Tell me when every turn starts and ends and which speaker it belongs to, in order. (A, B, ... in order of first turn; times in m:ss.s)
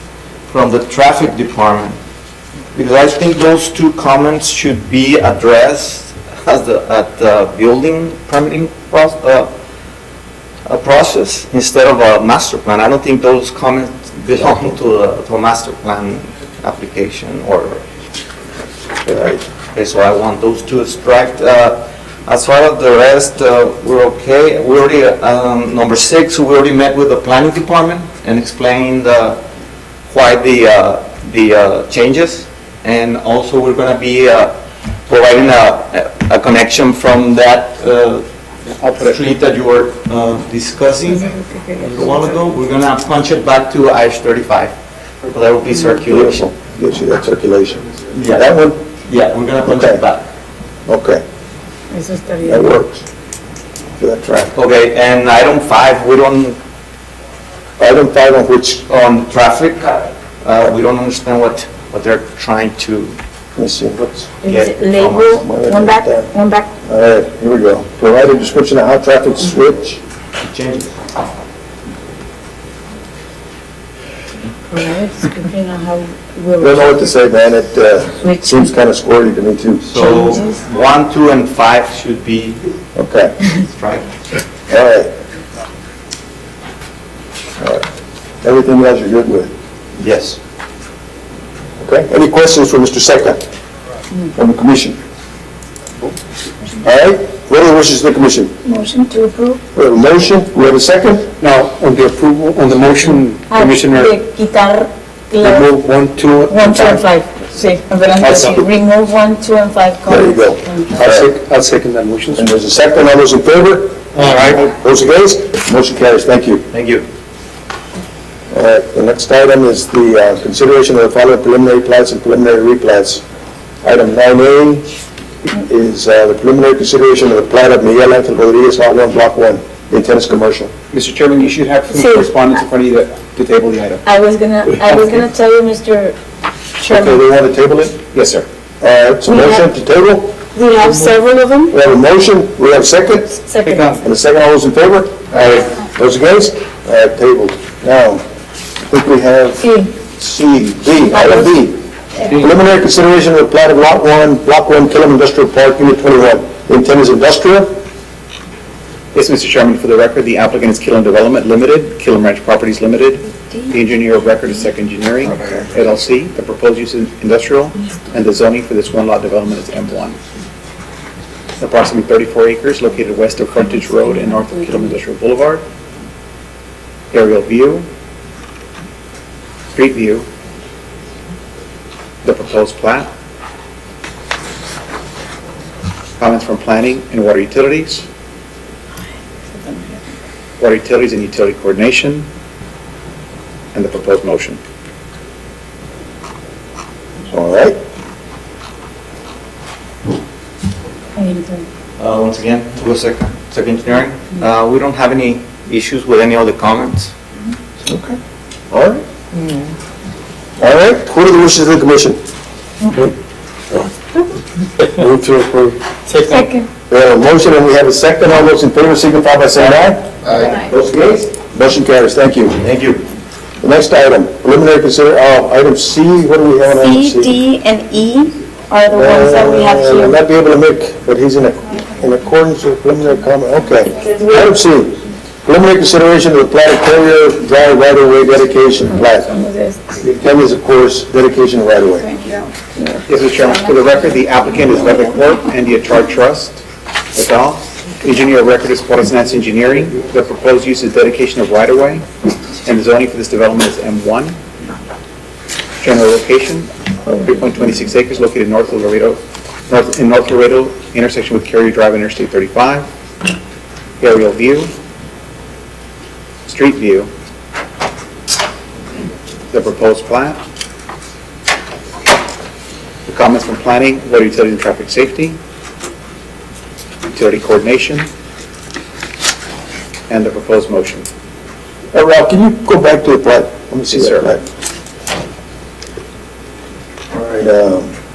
0:00.5-0:02.0 A
0:02.8-0:09.5 A
0:10.6-0:17.8 A
0:19.1-0:19.4 B
0:19.7-0:29.4 A
0:30.1-0:34.6 A
0:35.1-0:38.3 A
0:38.7-0:39.2 C
0:38.9-0:46.5 A
0:41.1-0:42.4 D
0:46.1-0:48.8 B
0:48.1-0:50.3 A
0:49.6-0:50.0 B
0:50.9-0:51.2 B
0:51.9-0:52.7 D
0:52.4-0:53.0 B
0:54.0-0:54.5 B
0:54.5-0:56.6 A
0:57.8-0:58.8 B
0:58.9-1:03.2 A
1:03.6-1:04.3 B
1:04.4-1:06.7 D
1:04.5-1:05.4 A
1:05.4-1:06.3 B
1:06.9-1:10.0 B
1:10.4-1:11.0 A
1:14.7-1:17.2 D
1:16.6-1:20.0 B
1:18.2-1:18.6 D
1:19.9-1:22.6 A
1:20.0-1:20.6 D
1:23.0-1:23.4 B
1:23.7-1:24.1 A
1:24.7-1:25.1 B
1:27.6-1:27.8 B
1:28.4-1:29.5 B
1:30.0-1:30.4 A
1:31.8-1:33.4 B
1:34.3-1:35.0 B
1:36.8-1:38.5 B
1:38.6-1:39.6 D
1:39.7-1:41.3 B
1:41.4-1:44.2 E
1:43.5-1:45.7 D
1:45.4-1:47.0 E
1:46.5-1:51.0 D
1:48.2-1:48.7 E
1:50.1-1:51.3 B
1:51.0-1:52.5 E
1:52.4-1:56.7 B
1:54.1-1:54.6 E
1:56.7-1:57.1 A
1:58.5-2:03.2 B
2:03.8-2:04.9 B
2:05.5-2:10.7 B
2:10.9-2:14.0 C
2:11.9-2:12.4 D
2:14.0-2:16.2 D
2:14.9-2:15.2 C
2:16.8-2:17.2 D
2:16.9-2:18.0 B
2:18.1-2:18.5 C
2:18.8-2:20.4 B
2:19.3-2:19.7 D
2:20.5-2:21.8 D
2:21.7-2:23.4 B
2:23.4-2:24.0 D
2:24.0-2:28.2 B
2:28.9-2:31.8 B
2:29.6-2:30.0 D
2:31.1-2:31.6 D
2:32.3-2:37.8 B
2:39.1-2:50.2 C
2:45.2-2:45.7 B
2:51.6-2:55.6 C
2:53.6-2:54.9 D
2:57.1-2:57.9 C
2:59.7-3:00.3 C
3:02.2-3:03.1 C
3:06.2-3:08.1 C
3:09.5-3:10.0 D
3:10.6-3:12.3 C
3:13.7-3:14.6 C
3:17.3-3:17.8 B
3:21.2-3:21.7 D
3:22.0-3:27.1 A
3:27.9-3:28.2 B
3:28.7-3:29.0 B
3:30.6-3:32.2 B
3:34.9-3:35.8 B
3:36.2-3:36.7 D
3:36.9-3:40.1 B
3:40.3-3:41.3 A
3:41.3-3:42.6 B
3:42.6-3:43.0 A
3:43.6-3:47.4 B
3:46.6-3:50.2 D
3:48.9-3:59.3 B
3:54.0-3:54.6 D
3:58.9-3:59.8 D
4:00.0-4:02.1 B
4:02.0-4:03.6 D
4:03.1-4:06.6 C
4:07.2-4:12.1 C
4:12.6-4:14.4 C
4:15.8-4:22.9 C
4:24.0-4:24.7 C
4:26.5-4:27.1 C
4:29.5-4:30.4 C
4:33.1-4:35.4 C
4:37.1-4:38.1 C
4:40.1-4:41.1 C
4:41.9-4:44.4 B
4:43.9-4:44.3 C
4:47.1-4:47.9 B